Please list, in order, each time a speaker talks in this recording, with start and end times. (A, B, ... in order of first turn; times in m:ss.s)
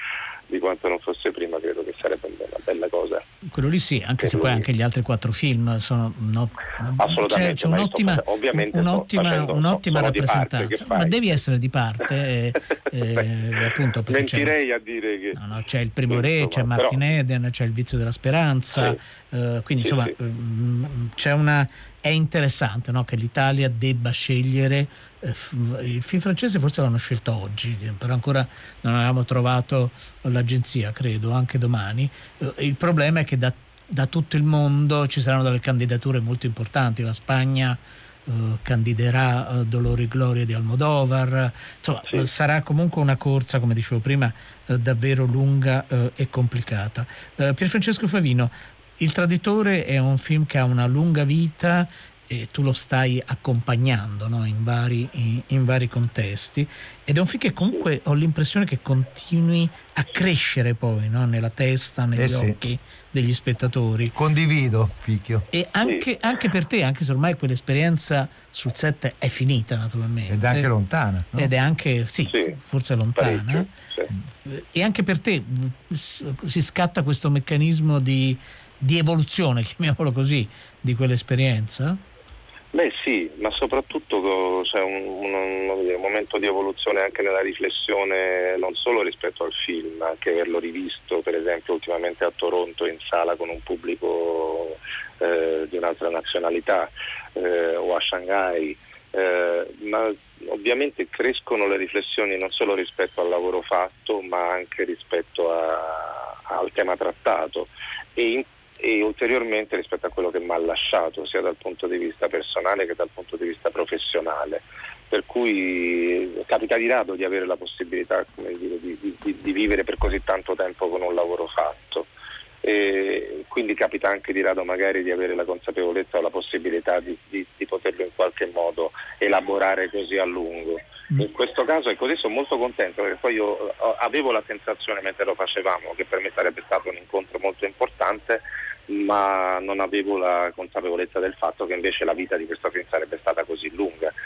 0:00.5-0:03.2 A
0:03.5-0:14.5 B
0:04.2-0:04.6 A
0:07.0-0:11.2 A
0:14.1-0:15.4 A
0:15.3-1:04.1 B
0:16.1-0:17.0 A
0:19.8-0:20.1 A
1:02.2-1:02.6 C
1:04.1-1:05.4 C
1:05.5-1:10.7 B
1:10.3-1:11.5 C
1:11.4-1:13.7 B
1:12.3-1:12.5 A
1:13.2-1:14.1 A
1:14.4-1:22.0 B
1:22.7-2:02.1 A
2:02.6-2:24.1 A